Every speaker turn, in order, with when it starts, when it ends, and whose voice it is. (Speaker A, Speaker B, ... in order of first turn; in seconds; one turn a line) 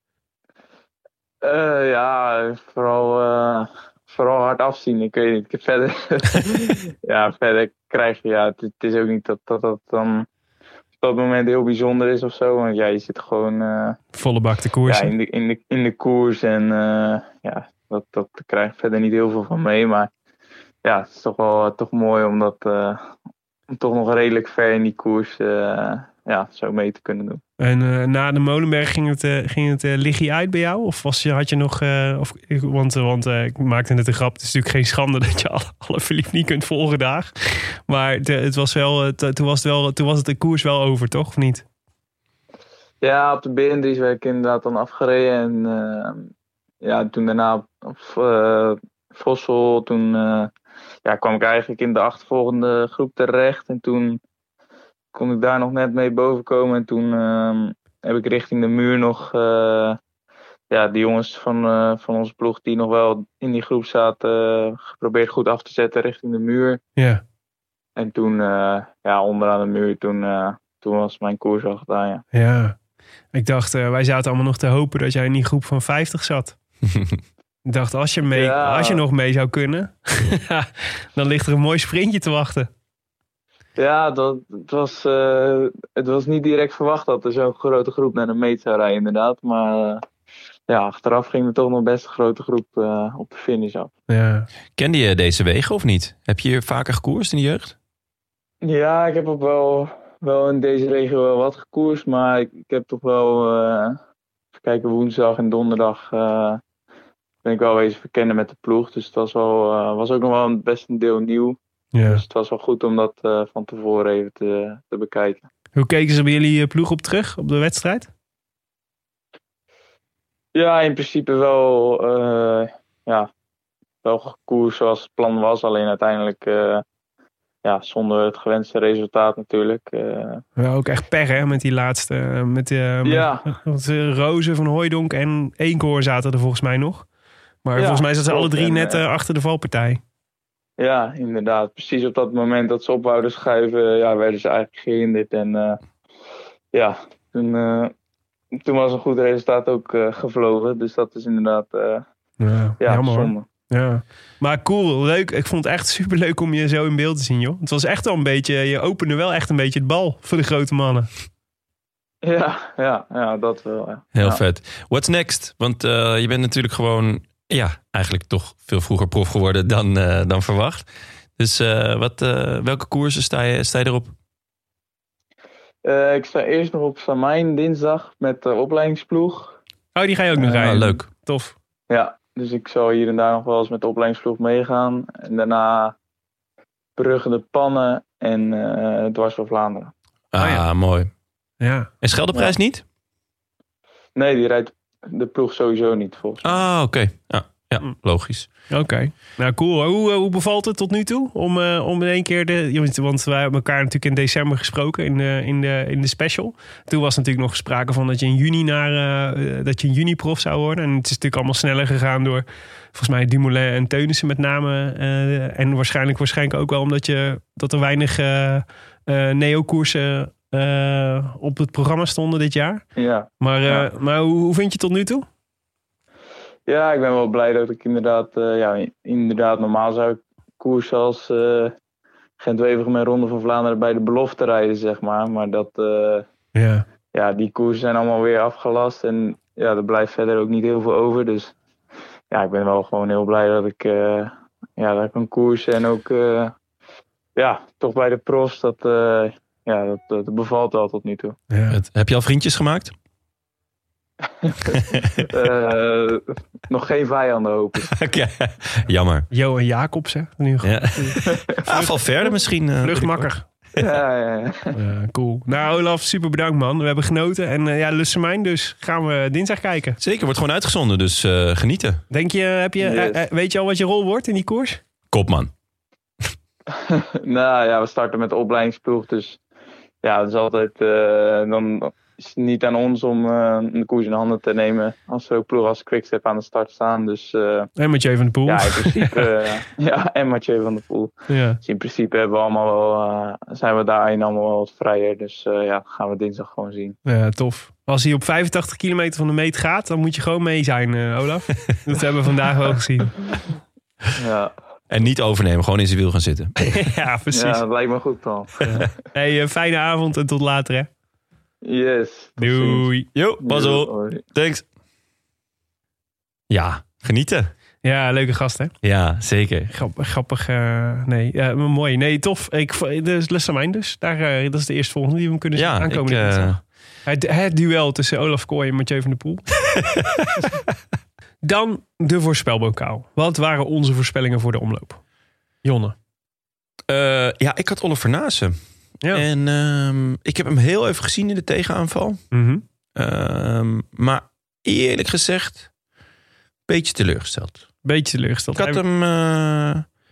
Speaker A: 1.4-10.3
Speaker A: 11.0-14.0
Speaker B: 14.2-15.1
Speaker A: 14.9-20.1
Speaker A: 20.8-23.1
Speaker A: 23.7-27.4
Speaker B: 27.6-41.6
Speaker A: 43.0-46.3
Speaker A: 46.8-50.5
Speaker A: 51.0-54.2
Speaker A: 55.1-60.0
Speaker A: 60.7-66.8
Speaker B: 67.0-67.2
Speaker A: 68.0-72.2
Speaker B: 72.3-72.8
Speaker B: 73.3-76.5
Speaker B: 77.7-82.7
Speaker A: 78.3-79.0
Speaker A: 83.8-90.0
Speaker A: 90.7-93.9
Speaker B: 94.1-94.5
Speaker C: 94.8-97.8
Speaker A: 98.6-104.0
Speaker A: 104.6-106.6
Speaker A: 107.4-115.5
Speaker B: 111.9-112.2
Speaker B: 115.8-118.1
Speaker A: 120.5-123.3
Speaker A: 124.0-126.8
Speaker A: 127.6-130.4
Speaker B: 130.6-137.1
Speaker A: 133.0-133.5
Speaker B: 137.7-140.0
Speaker A: 137.8-139.0
Speaker A: 140.8-145.8
Speaker A: 146.7-147.9
Speaker A: 148.6-152.1
Speaker B: 152.4-161.1
Speaker A: 152.8-153.5
Speaker A: 162.2-164.4
Speaker C: 164.2-170.9
Speaker C: 171.4-174.1
Speaker A: 175.8-179.6
Speaker B: 179.9-181.6
Speaker C: 180.4-181.1
Speaker A: 181.9-186.0
Speaker A: 187.0-189.9
Speaker C: 190.3-191.1
Speaker B: 190.4-190.7
Speaker B: 191.6-191.9
Speaker C: 192.0-192.8
Speaker A: 194.2-196.7
Speaker C: 196.4-198.5
Speaker B: 198.7-222.8
Speaker A: 223.0-223.9
Speaker B: 223.4-225.3
Speaker A: 226.7-231.8
Speaker A: 232.4-236.3
Speaker B: 236.6-236.9
Speaker A: 237.1-241.5
Speaker A: 242.3-246.5
Speaker A: 247.4-251.4
Speaker B: 251.5-251.8
Speaker C: 251.7-252.9
Speaker A: 254.4-257.9
Speaker C: 257.9-259.3
Speaker B: 259.3-262.0
Speaker C: 260.6-263.8
Speaker A: 261.3-261.6
Speaker B: 262.8-263.5
Speaker A: 263.8-264.8
Speaker B: 264.7-270.0
Speaker C: 270.0-272.0
Speaker B: 272.1-274.8
Speaker A: 272.8-273.2
Speaker C: 275.1-275.5
Speaker A: 276.7-279.4
Speaker A: 280.0-287.7
Speaker B: 287.8-289.3
Speaker A: 288.4-297.0
Speaker B: 291.3-291.6
Speaker B: 297.1-303.1
Speaker A: 304.2-304.5
Speaker C: 304.9-306.6
Speaker B: 306.7-307.6
Speaker A: 307.3-308.6
Speaker B: 308.6-310.9
Speaker A: 311.6-312.9
Speaker B: 312.4-313.1
Speaker C: 313.1-314.6
Speaker A: 313.4-314.2
Speaker C: 316.5-317.5
Speaker B: 317.8-318.7
Speaker C: 318.8-319.7
Speaker B: 319.7-329.5
Speaker C: 325.6-326.6
Speaker B: 331.4-335.0
Speaker B: 335.6-335.9
Speaker C: 336.9-338.6
Speaker C: 339.1-342.2
Speaker B: 342.3-342.6
Speaker C: 343.0-345.7
Speaker C: 346.7-347.7
Speaker B: 347.8-348.8
Speaker C: 348.6-349.9